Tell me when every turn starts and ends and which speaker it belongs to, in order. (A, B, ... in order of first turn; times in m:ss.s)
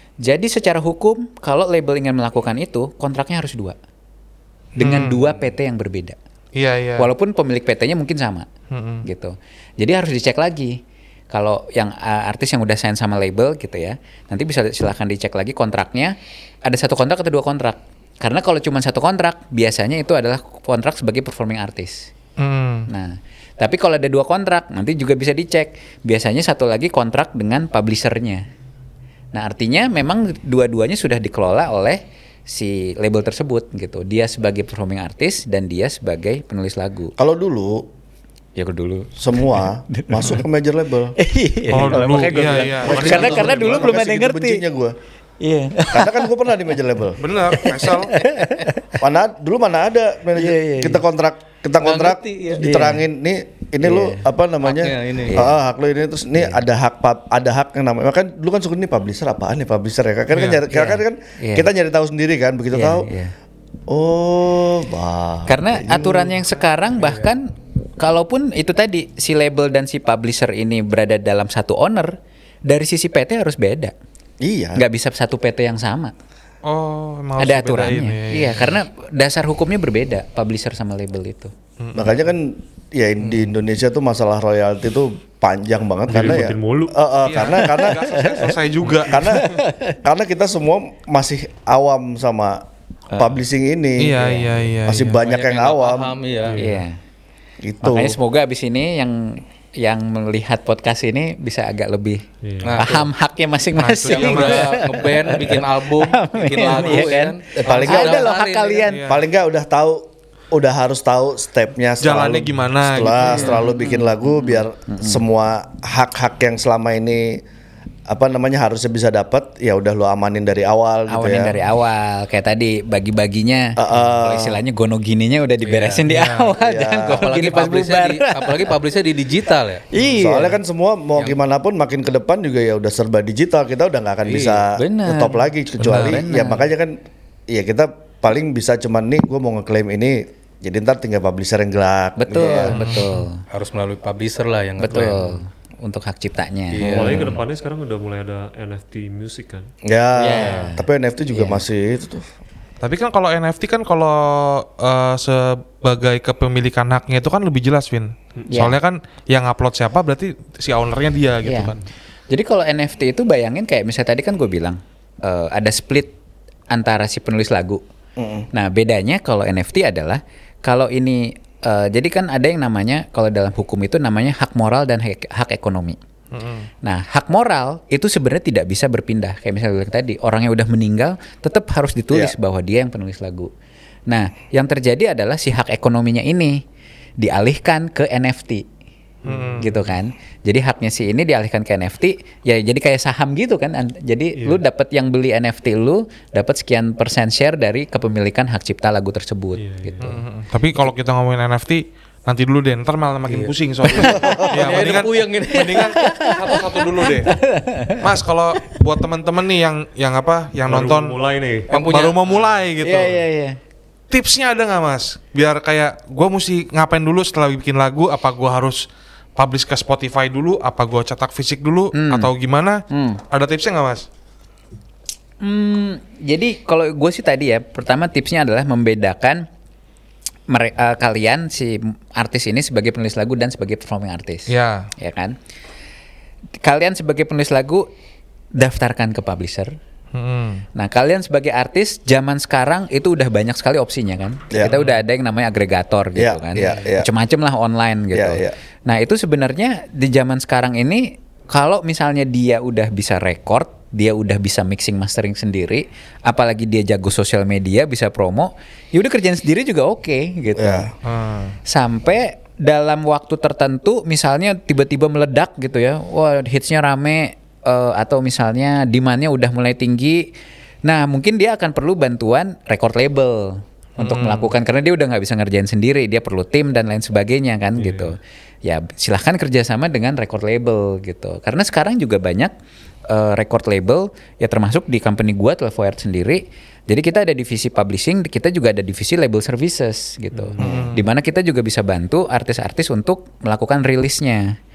0:00.2-0:03.8 A
0:04.8-0:06.2 A
0:04.8-0:05.3 B
0:06.6-0:07.1 B
0:07.0-0:08.5 A
0:08.7-0:09.1 B
0:09.0-0:22.1 A
0:22.4-0:22.9 B
0:22.9-0:28.4 A
0:29.3-0:37.2 A
0:37.2-0:37.9 C
0:38.6-0:40.4 A
0:39.2-0:41.2 C
0:41.2-0:44.6 A
0:41.7-0:43.8 B
0:41.8-0:42.1 D
0:42.8-0:45.0 C
0:42.9-0:43.6 E
0:45.4-0:46.4 A
0:45.9-0:47.2 C
0:47.2-0:48.2 B
0:47.5-0:49.0 A
0:49.0-1:03.1 C
0:50.4-0:51.0 A
0:51.8-0:52.7 E
0:52.6-0:53.0 A
0:53.8-0:54.3 A
0:54.6-0:55.5 E
0:55.3-0:55.6 A
1:00.3-1:00.6 B
1:00.7-1:01.7 A
1:02.7-1:03.3 A
1:03.9-1:06.4 C
1:05.5-1:13.9 A
1:14.4-1:14.8 C
1:14.8-1:16.1 A
1:16.6-1:18.8 B
1:17.4-1:21.5 A
1:21.8-1:22.2 B
1:22.0-1:28.2 C
1:26.1-1:27.0 D
1:27.2-1:29.3 B
1:28.0-1:28.5 A
1:29.0-1:34.2 C
1:29.2-1:30.0 A
1:34.0-1:35.2 B
1:34.2-1:34.5 A
1:34.9-1:36.2 C
1:35.2-1:36.6 E
1:36.5-1:36.8 D
1:36.6-1:37.0 A
1:37.6-1:38.2 C
1:37.8-1:42.2 A
1:42.4-1:42.8 D
1:42.6-1:43.1 E
1:42.8-1:49.1 A
1:43.8-1:44.8 B
1:44.1-1:48.9 E
1:47.6-1:48.3 C
1:48.8-1:49.2 B
1:49.0-1:57.4 C
1:52.0-1:53.5 B
1:53.2-1:55.2 A
1:58.1-2:01.6 C
2:01.1-2:08.8 A
2:03.8-2:04.6 C
2:05.6-2:06.0 E
2:06.0-2:06.6 B
2:06.6-2:07.2 C
2:07.0-2:09.9 E
2:09.9-2:10.6 A
2:10.0-2:22.8 C
2:14.2-2:14.6 E
2:14.8-2:16.7 A
2:22.2-2:23.4 A
2:22.7-2:23.3 B
2:23.5-2:25.4 E
2:24.8-2:27.3 A
2:26.7-2:27.4 E
2:26.8-2:27.3 C
2:26.9-2:29.7 D
2:29.8-2:32.2 C
2:30.2-2:31.6 A
2:32.8-2:41.8 B
2:38.5-2:38.8 A
2:41.4-2:41.8 A
2:42.3-2:46.2 A
2:46.7-2:47.8 A
2:48.2-2:48.5 C
2:48.5-2:56.0 A
2:56.3-2:56.7 B
2:56.8-3:03.5 A
3:04.1-3:06.6 A
3:07.2-3:08.7 A
3:09.2-3:09.8 B
3:09.2-3:09.8 D
3:09.6-3:20.2 A
3:19.6-3:20.2 D
3:20.0-3:27.4 B
3:23.9-3:24.5 A
3:24.2-3:24.5 C
3:24.4-3:26.8 E
3:25.8-3:28.0 A
3:27.9-3:31.2 B
3:30.7-3:31.7 D
3:31.7-3:32.4 E
3:31.7-3:33.2 B
3:32.8-3:33.6 A
3:34.1-3:38.8 B
3:39.4-3:44.1 B
3:41.9-3:42.3 A
3:42.9-3:43.2 A
3:45.4-3:49.5 A
3:50.5-3:55.4 A
3:54.5-3:54.9 B
3:56.6-3:57.9 A
3:58.6-3:59.8 A
4:00.1-4:00.6 B
4:00.8-4:20.9 A
4:06.2-4:07.1 C
4:08.1-4:08.6 C
4:20.6-4:20.9 C
4:21.0-4:21.6 B
4:21.7-4:30.3 A
4:30.8-4:42.5 A
4:34.0-4:34.5 B
4:43.1-4:54.6 A
4:50.3-4:50.7 D
4:50.6-4:50.9 C
4:50.6-4:51.1 B